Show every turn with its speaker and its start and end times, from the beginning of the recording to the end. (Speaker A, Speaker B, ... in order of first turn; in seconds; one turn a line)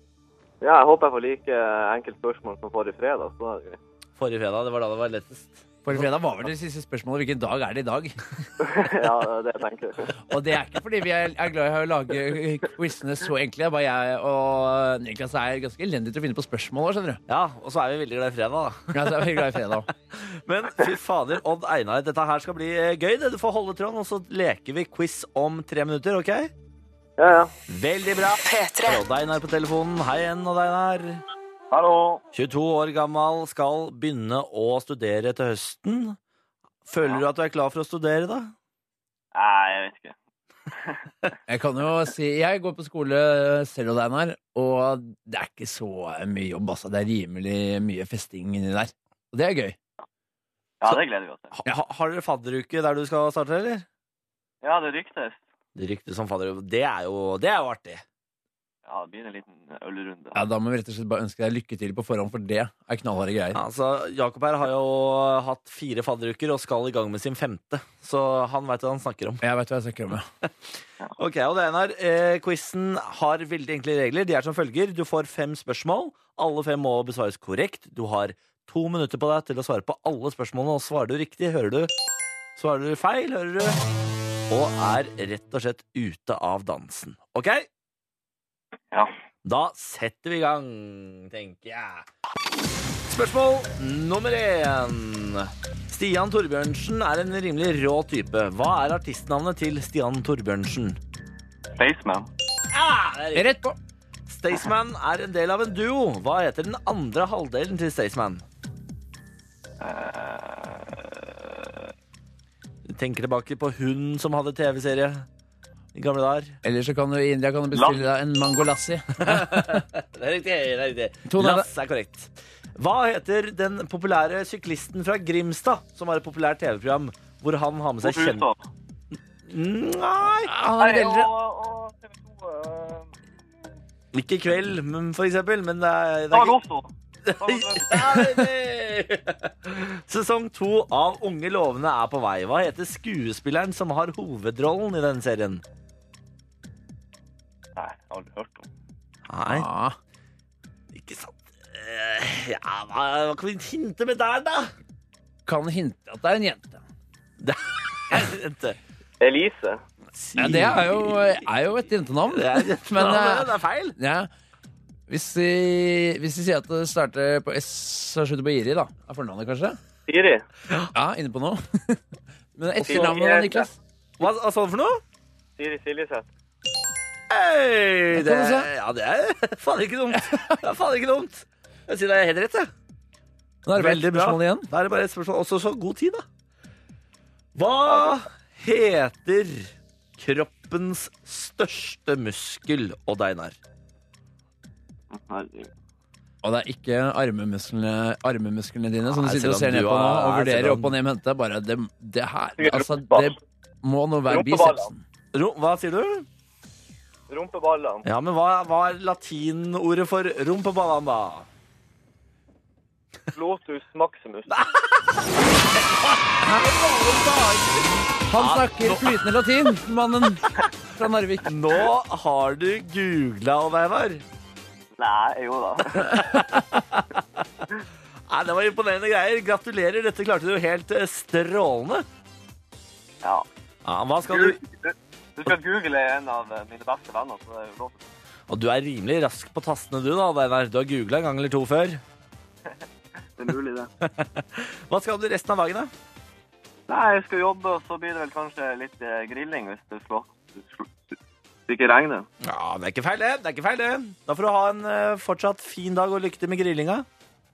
Speaker A: 0.6-3.8
Speaker B: 4.2-6.0
Speaker C: 5.8-8.5
Speaker A: 8.6-10.2
Speaker C: 10.2-17.2
Speaker B: 17.3-26.5
Speaker C: 18.9-19.9
Speaker A: 27.2-27.5
Speaker B: 27.7-31.2
Speaker A: 31.7-32.2
Speaker B: 32.3-36.2
Speaker B: 36.9-38.5
Speaker A: 39.3-40.1
Speaker A: 40.7-41.3
Speaker C: 41.5-49.8
Speaker A: 50.8-51.5
Speaker B: 51.5-53.9
Speaker A: 54.6-55.4
Speaker B: 55.8-58.0
Speaker A: 58.9-60.4
Speaker C: 60.3-63.6
Speaker B: 63.5-69.4
Speaker C: 69.4-70.3
Speaker B: 71.2-81.9
Speaker B: 82.6-83.8
Speaker B: 84.5-87.7
Speaker B: 89.5-92.1
Speaker B: 93.1-101.0
Speaker A: 101.8-102.3
Speaker B: 102.7-103.6
Speaker C: 103.3-103.8
Speaker B: 104.3-108.4
Speaker A: 109.8-111.9
Speaker B: 112.9-115.3
Speaker B: 115.9-116.6
Speaker C: 116.6-119.8
Speaker A: 117.8-118.0
Speaker B: 119.2-128.5
Speaker C: 121.3-121.7
Speaker A: 128.0-128.6
Speaker B: 129.4-130.5
Speaker C: 130.4-131.3
Speaker A: 130.8-133.1
Speaker B: 134.1-136.6
Speaker A: 136.3-138.4
Speaker B: 137.3-145.6
Speaker A: 147.8-148.7
Speaker B: 149.3-149.7
Speaker C: 149.5-150.0
Speaker B: 150.9-154.7
Speaker C: 155.5-156.8
Speaker B: 157.4-158.8
Speaker A: 159.2-159.8
Speaker B: 160.2-161.4
Speaker C: 160.4-164.3
Speaker B: 162.3-164.0
Speaker C: 165.1-169.8
Speaker A: 170.1-170.4
Speaker C: 170.9-172.0
Speaker C: 172.6-173.8
Speaker A: 172.8-173.7
Speaker B: 174.2-175.0
Speaker A: 175.6-176.3
Speaker B: 177.3-182.7
Speaker C: 178.1-178.7
Speaker C: 180.2-180.6
Speaker C: 183.7-184.7
Speaker B: 183.7-186.2
Speaker B: 187.6-193.6
Speaker A: 195.1-195.7
Speaker C: 196.4-205.0
Speaker B: 199.1-201.0
Speaker A: 202.6-203.4
Speaker A: 204.3-204.9
Speaker B: 205.3-206.3
Speaker A: 207.3-208.1
Speaker B: 208.1-211.5
Speaker A: 213.3-214.6
Speaker B: 214.5-215.1
Speaker B: 215.8-219.2
Speaker C: 218.3-221.5
Speaker B: 221.4-224.2
Speaker A: 225.0-226.3
Speaker B: 226.0-227.4
Speaker B: 228.3-232.1
Speaker B: 233.8-234.6
Speaker A: 234.3-238.0
Speaker B: 238.5-242.0
Speaker A: 243.4-243.9
Speaker B: 244.0-245.9
Speaker A: 246.9-252.3
Speaker B: 252.4-257.1